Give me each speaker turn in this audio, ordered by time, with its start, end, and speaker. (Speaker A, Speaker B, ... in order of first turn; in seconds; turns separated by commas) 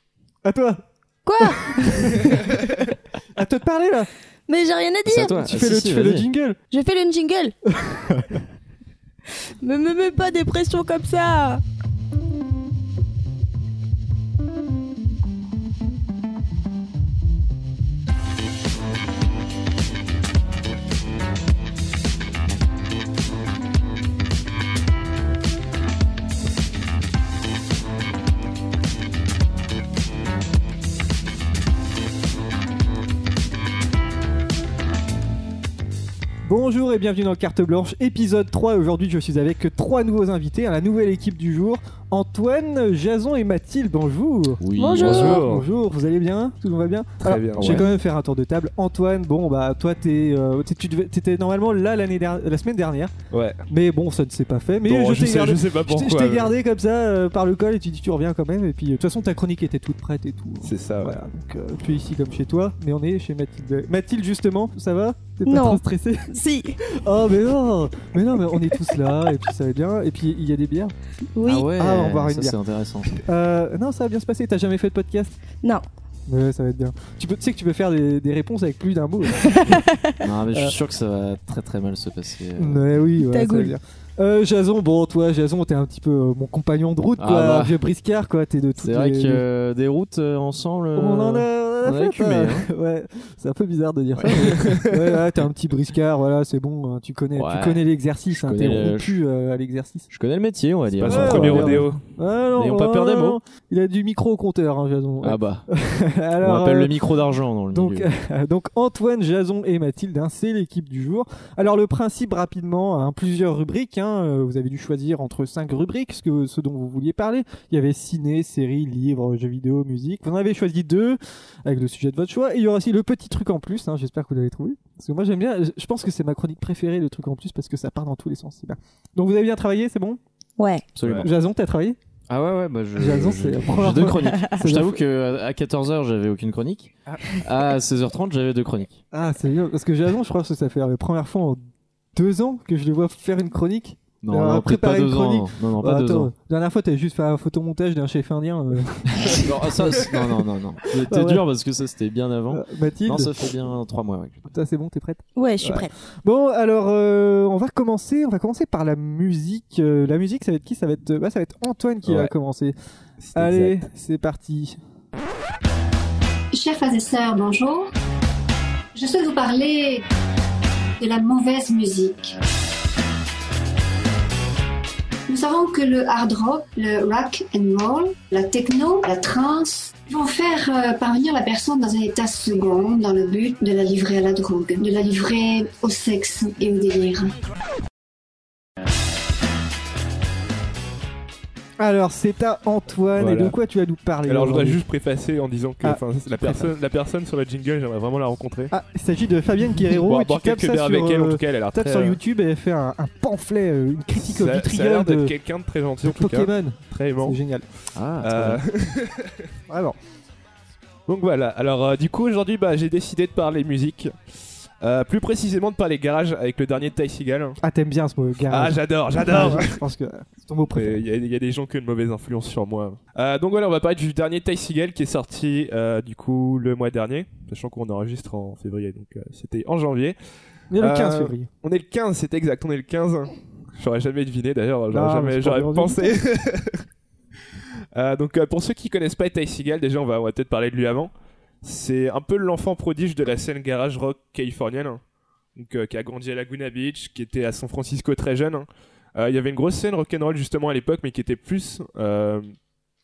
Speaker A: 0.4-0.8, Speaker B: 1.2-2.3, Speaker A: 1.4-2.8, Speaker A: 3.4-4.1, Speaker B: 4.5-5.4, Speaker C: 5.1-6.3, Speaker A: 5.4-6.6, Speaker B: 6.7-7.5, Speaker A: 7.8-8.4, Speaker B: 9.6-11.6, Speaker A: 36.5-53.1, Speaker C: 44.6-45.4, Speaker B: 44.8-45.4, Speaker D: 45.0-45.7, Speaker D: 47.2-47.8, Speaker C: 47.6-47.9, Speaker D: 53.3-53.6, Speaker A: 53.7-70.9, Speaker D: 54.9-56.5, Speaker D: 60.6-61.2, Speaker B: 65.5-66.8, Speaker B: 68.7-69.0, Speaker B: 71.4-71.7, Speaker C: 71.5-73.2, Speaker A: 71.8-72.5, Speaker A: 73.2-75.3, Speaker A: 76.3-79.8, Speaker B: 79.4-80.3, Speaker C: 80.2-82.9, Speaker A: 82.6-89.4, Speaker B: 83.2-83.8, Speaker C: 87.2-87.8, Speaker C: 88.8-92.7, Speaker A: 91.0-100.1, Speaker C: 94.1-94.8, Speaker D: 94.5-94.9, Speaker C: 97.3-99.2, Speaker C: 100.1-101.9, Speaker D: 100.9-102.0, Speaker A: 101.0-106.9, Speaker C: 102.6-103.4, Speaker C: 105.2-105.7, Speaker C: 106.4-108.1, Speaker A: 107.7-130.2, Speaker B: 130.6-130.8, Speaker C: 130.9-131.3, Speaker D: 131.0-131.3, Speaker A: 131.2-132.0, Speaker C: 132.3-139.0, Speaker A: 133.0-135.0, Speaker A: 139.1-141.6, Speaker A: 142.2-151.4, Speaker C: 144.2-146.3, Speaker C: 149.2-154.5, Speaker A: 152.5-153.3, Speaker A: 154.5-162.8, Speaker B: 155.4-155.9, Speaker D: 162.1-162.3, Speaker D: 163.2-163.9, Speaker A: 163.4-164.8, Speaker E: 166.5-167.9, Speaker E: 168.9-170.0, Speaker E: 171.0-172.4, Speaker E: 175.3-187.4, Speaker A: 191.8-194.8, Speaker D: 193.2-193.6, Speaker D: 194.3-198.7, Speaker A: 195.8-196.7, Speaker A: 198.7-205.3, Speaker D: 199.8-202.2, Speaker D: 204.2-207.4, Speaker A: 206.0-207.7, Speaker C: 207.9-208.6, Speaker D: 208.2-209.5, Speaker A: 209.7-210.0, Speaker D: 211.1-214.2, Speaker D: 214.8-217.6, Speaker A: 217.6-221.0, Speaker D: 218.5-219.8, Speaker D: 220.7-230.2, Speaker A: 230.7-231.5, Speaker D: 230.8-236.8, Speaker A: 234.9-236.2, Speaker D: 237.9-241.1, Speaker D: 241.6-245.0, Speaker D: 245.6-252.5